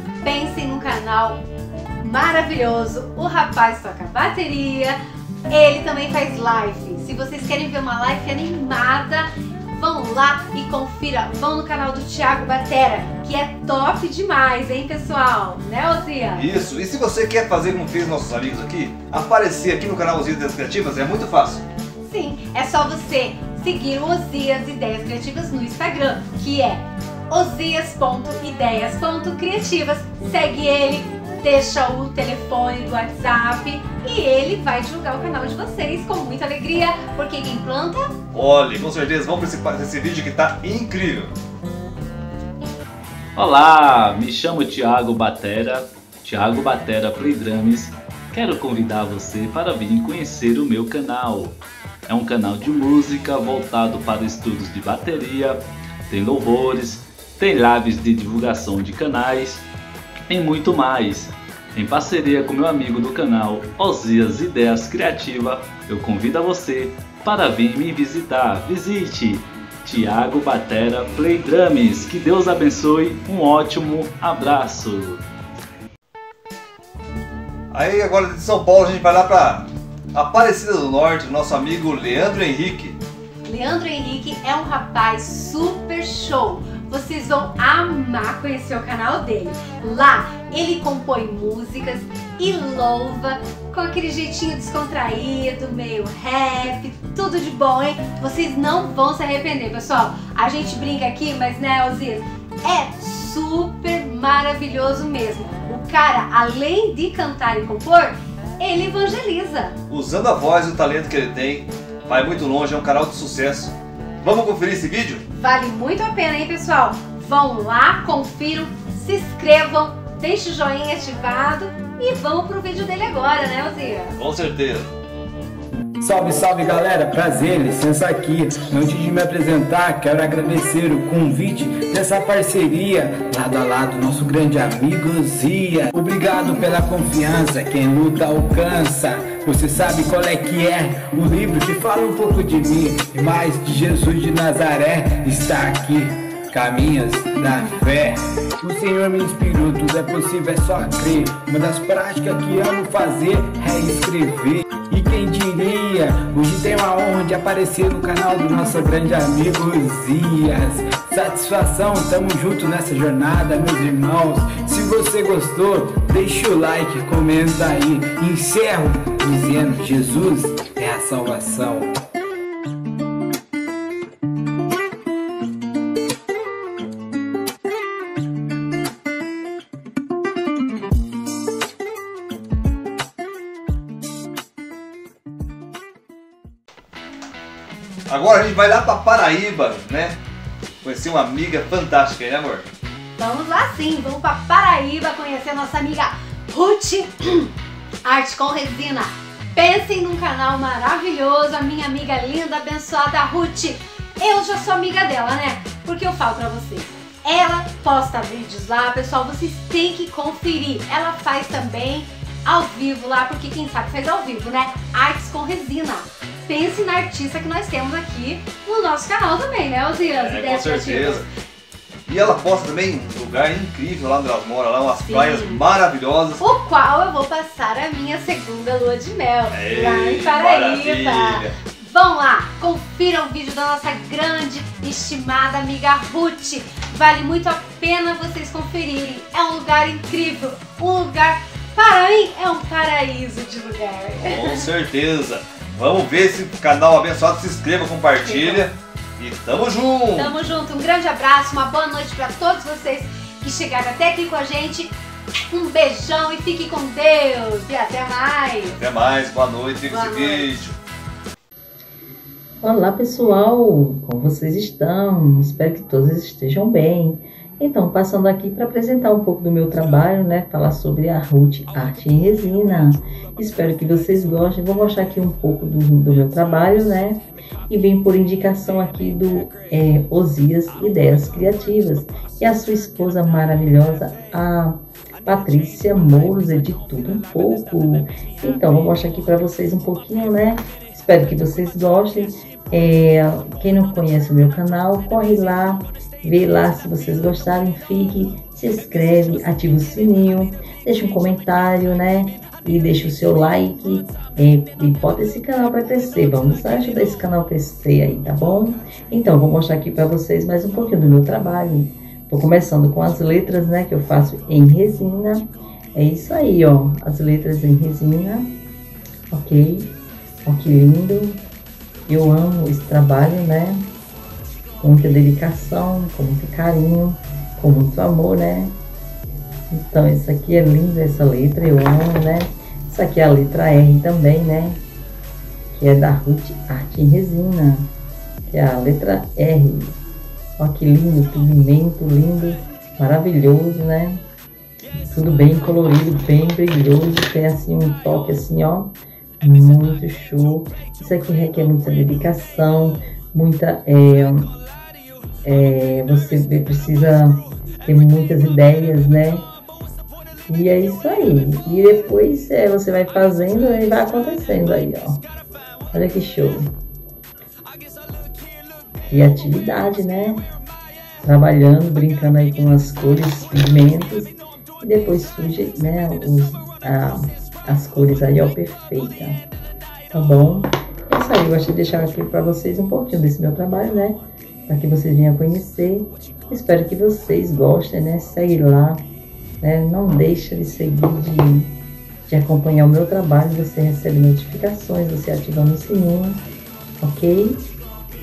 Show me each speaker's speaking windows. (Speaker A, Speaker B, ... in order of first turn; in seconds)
Speaker A: 0.2-1.4, 2.0-5.0, 5.5-16.5, 22.0-38.1, 83.4-109.8, 115.3-124.2, 193.2-197.5, 198.0-221.3, 225.1-225.6, 226.4-244.7, 248.2-248.7, 250.2-258.8, 259.9-260.7
Speaker B: 16.4-21.6, 38.3-41.4, 77.7-83.0, 109.9-115.2, 124.2-124.9, 188.1-190.2, 190.8-192.7, 220.1-221.2, 222.1-226.4, 229.5-231.5, 244.2-250.3, 258.7-260.8
Speaker C: 43.4-59.7, 60.3-75.2
Speaker D: 126.0-171.9
Speaker E: 262.6-318.5, 319.3-319.9, 320.4-321.4, 322.1-323.9, 324.8-328.7, 329.7-334.8, 335.7-337.9, 338.5-340.0, 340.6-344.2, 345.1-354.5, 355.4-359.4, 360.5-365.2, 365.9-366.7, 369.1-370.4, 371.2-379.4, 380.1-389.0, 389.6-391.7, 392.3-396.4, 397.0-397.6